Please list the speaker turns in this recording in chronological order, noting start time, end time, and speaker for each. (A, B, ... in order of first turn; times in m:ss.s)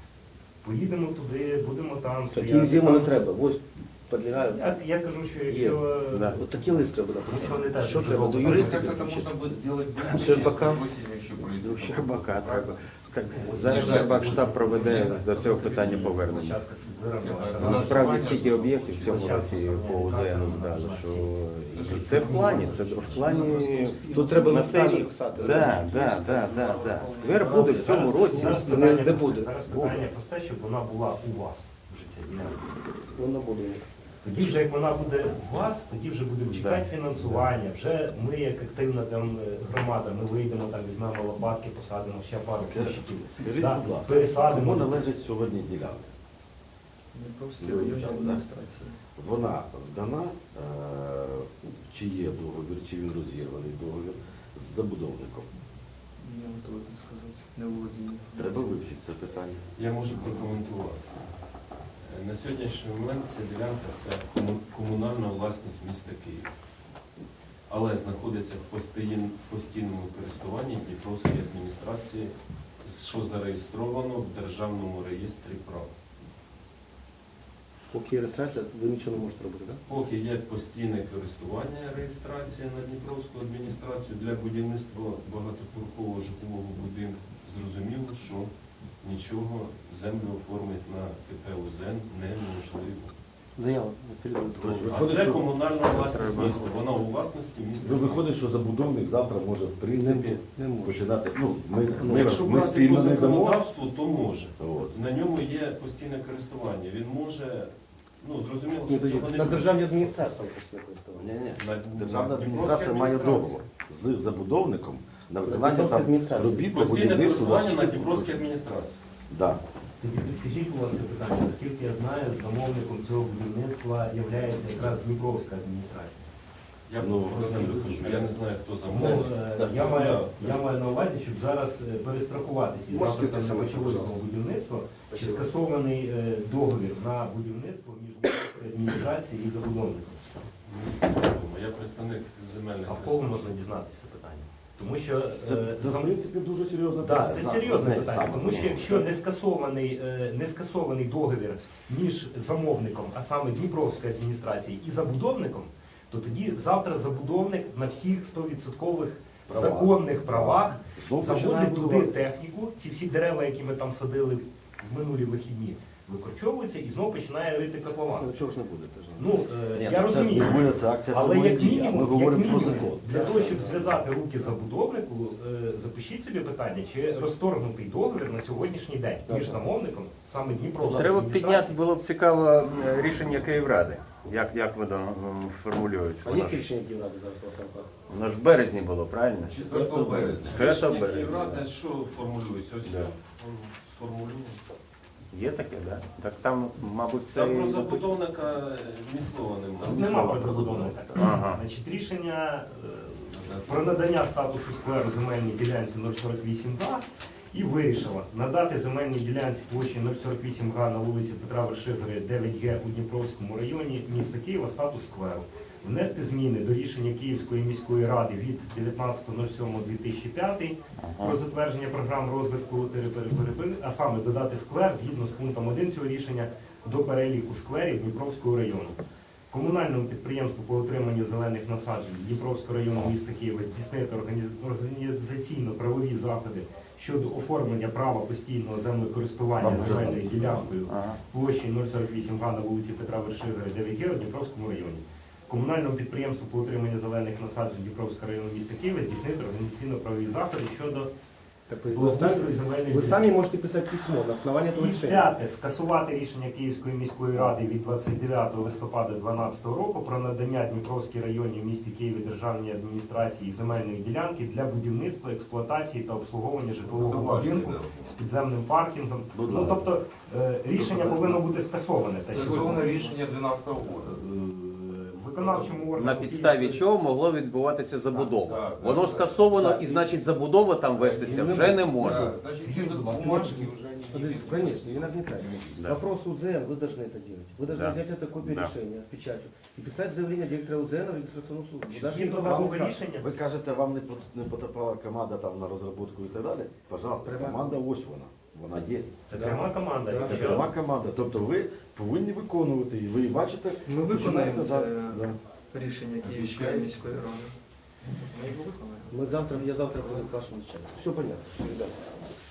0:00.6-0:03.2 A
0:02.3-0:04.8 B
0:04.5-0:06.4 A
0:05.5-0:09.3 B
0:06.1-0:06.4 C
0:07.3-0:09.0 A
0:08.3-0:16.4 D
0:10.1-0:10.8 B
0:11.6-0:16.6 C
0:13.3-0:18.4 A
0:17.2-0:20.6 D
0:17.6-0:29.0 C
0:19.0-0:23.3 A
0:21.7-0:28.0 D
0:24.1-0:26.6 B
0:27.2-0:30.0 B
0:27.6-0:32.6 A
0:33.1-0:33.9 B
0:34.2-0:45.1 A
0:36.5-0:36.9 C
0:42.4-0:46.1 E
0:47.1-0:49.0 F
0:47.6-0:48.4 E
0:49.2-0:55.5 E
0:56.2-0:58.8 F
0:58.3-0:59.6 E
0:59.8-1:01.3 G
1:02.0-1:06.5 G
1:07.7-1:12.3 G
1:12.8-1:15.9 G
1:17.9-1:19.8 B
1:19.9-1:28.5 G
1:29.0-1:33.1 G
1:33.6-1:34.9 B
1:34.6-1:36.7 E
1:34.8-1:38.3 G
1:37.8-1:43.6 E
1:39.9-1:41.1 B
1:42.0-1:43.2 B
1:42.0-1:50.2 G
1:44.6-1:45.0 E
1:48.8-1:51.3 B
1:51.2-1:58.4 E
1:51.5-1:53.6 G
1:55.5-1:56.7 B
1:56.7-1:59.0 G
1:59.3-1:59.6 E
2:00.0-2:06.3 A
2:06.9-2:10.3 G
2:07.0-2:08.4 E
2:08.9-2:20.5 A
2:09.0-2:09.8 B
2:12.9-2:14.2 B
2:15.1-2:15.6 B
2:20.6-2:23.5 G
2:22.9-2:26.1 A
2:25.4-2:29.1 E
2:27.0-2:48.3 A
2:39.5-2:42.2 E
2:48.1-2:49.4 B
2:49.2-3:01.8 A
2:49.8-2:53.9 E
2:53.1-2:54.0 B
2:59.3-2:59.6 B
3:00.8-3:06.7 C
3:06.2-3:07.9 B
3:08.1-3:11.6 C
3:09.4-3:10.8 D
3:09.7-3:10.2 B
3:10.5-3:14.6 G
3:12.8-3:13.1 C
3:15.3-3:18.2 C
3:17.3-3:20.6 G
3:19.8-3:49.0 A
3:19.9-3:21.0 E
3:21.1-3:21.6 C
3:23.3-3:23.7 G
3:41.0-3:41.4 C
3:49.5-4:11.1 A
3:59.6-4:00.8 E
4:00.9-4:01.2 C
4:11.7-4:15.3 B
4:11.9-4:13.3 A
4:14.8-4:33.1 A
4:26.8-4:28.1 D
4:29.3-4:29.9 E
4:30.7-4:31.4 E
4:32.3-4:34.2 D
4:34.6-4:35.0 E
4:35.0-4:36.8 A
4:35.4-4:35.9 D
4:35.9-4:42.4 C
4:38.1-4:39.5 D
4:39.5-4:40.2 B
4:40.9-4:46.0 D
4:41.3-4:41.7 B
4:42.6-4:43.7 A
4:44.1-4:53.0 B
4:47.7-4:48.7 C
4:51.9-4:53.3 A
4:53.2-4:59.2 E
4:57.2-4:57.8 B
4:59.3-5:00.7 A
4:59.3-5:00.6 B
5:00.2-5:05.4 E
5:03.9-5:07.5 F
5:06.2-5:07.0 D
5:08.1-5:10.3 F
5:09.1-5:12.0 B